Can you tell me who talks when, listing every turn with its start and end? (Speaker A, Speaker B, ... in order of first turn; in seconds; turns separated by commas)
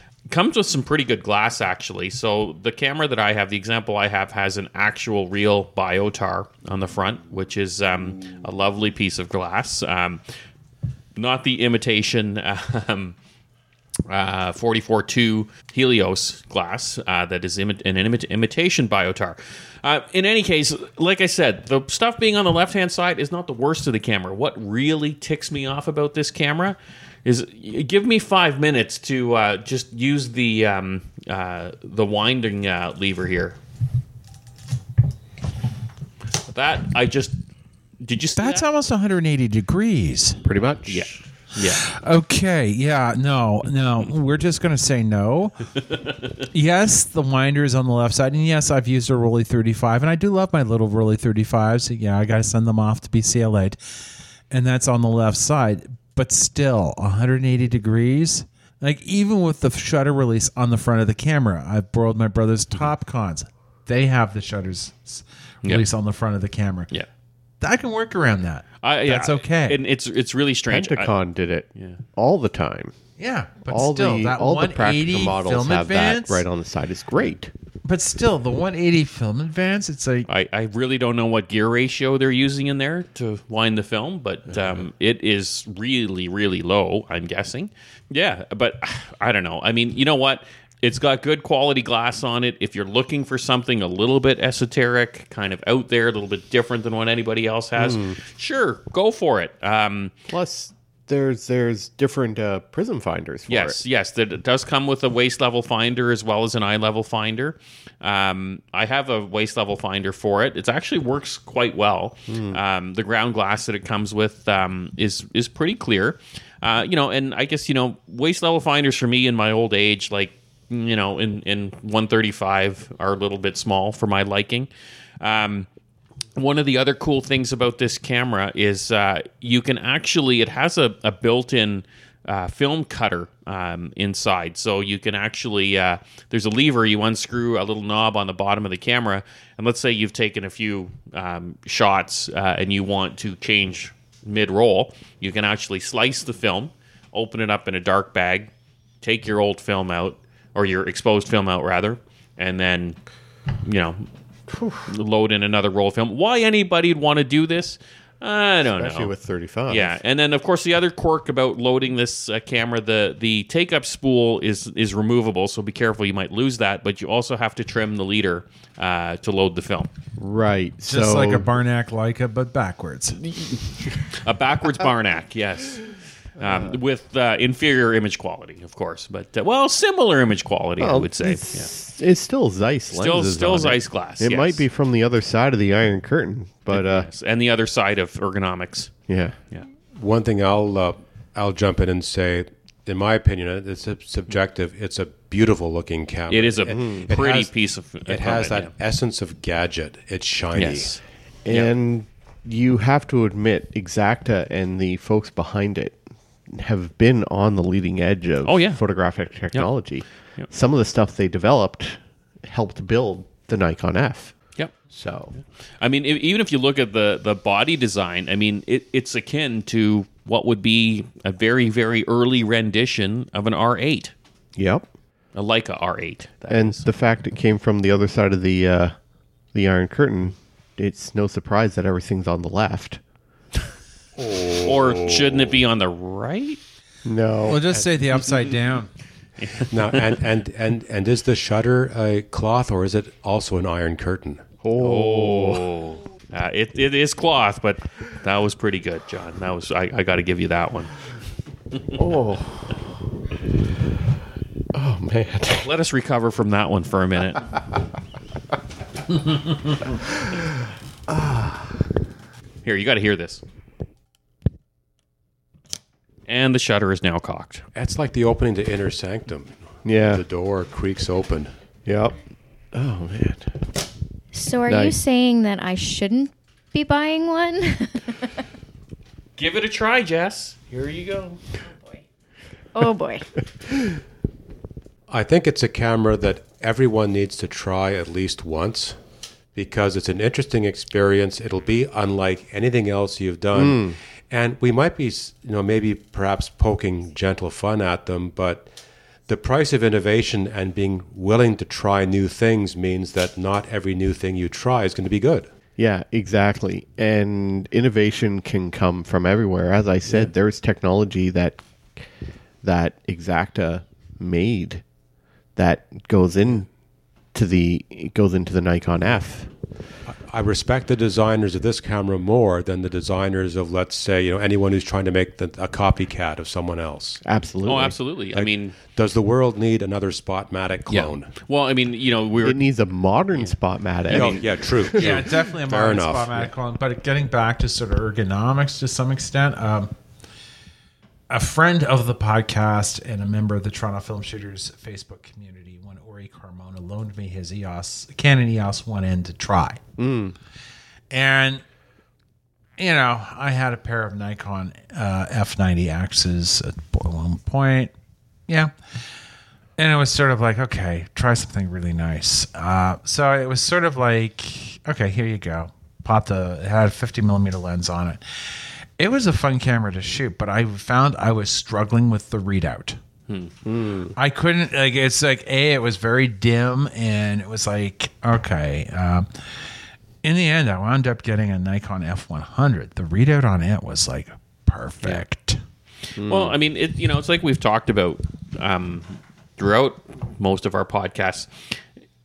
Speaker A: 0.3-10.2, Speaker A: 11.2-13.2, Speaker A: 14.1-33.6, Speaker A: 36.4-37.4, Speaker A: 38.0-38.6, Speaker B: 38.4-40.4, Speaker C: 40.4-41.1, Speaker A: 40.9-41.9, Speaker B: 41.8-45.7, Speaker B: 46.5-66.9, Speaker B: 67.6-69.8, Speaker A: 68.8-71.1, Speaker C: 70.7-73.0, Speaker B: 73.2-76.5, Speaker C: 73.7-77.5, Speaker B: 77.8-80.3, Speaker A: 80.3-100.1, Speaker C: 97.8-98.2, Speaker C: 100.3-103.8, Speaker A: 103.5-125.7, Speaker C: 112.3-112.6, Speaker A: 126.4-148.5, Speaker A: 149.0-153.0, Speaker A: 153.6-154.1, Speaker A: 154.8-159.1, Speaker C: 158.8-160.0, Speaker A: 159.7-169.9, Speaker C: 170.2-171.5, Speaker B: 170.9-173.2, Speaker A: 174.1-181.7, Speaker C: 180.8-187.1, Speaker A: 182.9-184.7, Speaker A: 186.7-188.9, Speaker C: 189.1-189.4, Speaker D: 190.0-197.5, Speaker A: 196.3-198.7, Speaker C: 196.7-197.1, Speaker D: 198.1-201.0, Speaker A: 200.6-201.7, Speaker C: 201.5-214.4, Speaker A: 208.4-208.8, Speaker C: 214.9-215.3, Speaker A: 215.8-224.1, Speaker C: 224.6-224.9, Speaker A: 225.3-226.9, Speaker C: 226.5-229.0, Speaker C: 229.5-233.0, Speaker D: 234.2-235.5, Speaker A: 234.6-236.6, Speaker C: 237.1-237.6, Speaker B: 237.4-238.9, Speaker A: 239.4-240.2, Speaker D: 239.6-244.4, Speaker C: 244.6-245.7, Speaker A: 244.8-250.9, Speaker C: 251.9-252.9, Speaker C: 254.7-255.7, Speaker A: 255.6-257.5, Speaker C: 261.1-261.7, Speaker A: 262.6-263.4, Speaker A: 266.3-267.6, Speaker D: 267.7-271.5, Speaker C: 269.8-270.2, Speaker C: 271.9-272.1, Speaker C: 272.7-273.6, Speaker E: 274.3-278.4, Speaker C: 274.7-275.0, Speaker A: 279.4-281.6, Speaker E: 282.7-283.3, Speaker D: 285.1-289.0, Speaker D: 289.6-298.7, Speaker C: 293.5-294.0, Speaker D: 299.3-305.5, Speaker C: 305.8-312.0, Speaker C: 312.6-314.8, Speaker C: 315.6-316.7, Speaker C: 317.3-319.5, Speaker D: 320.1-327.2, Speaker C: 327.2-328.0, Speaker A: 327.7-328.8, Speaker D: 328.3-331.3, Speaker A: 330.9-332.6, Speaker C: 332.4-335.1, Speaker D: 334.1-336.5, Speaker B: 334.9-339.9, Speaker B: 341.3-349.9, Speaker C: 350.0-350.4, Speaker B: 351.1-351.6, Speaker B: 352.8-357.9, Speaker B: 359.8-368.2, Speaker B: 369.0-373.0, Speaker C: 373.6-374.1, Speaker B: 374.1-379.3, Speaker B: 380.2-385.6, Speaker C: 386.2-386.6, Speaker A: 386.3-391.8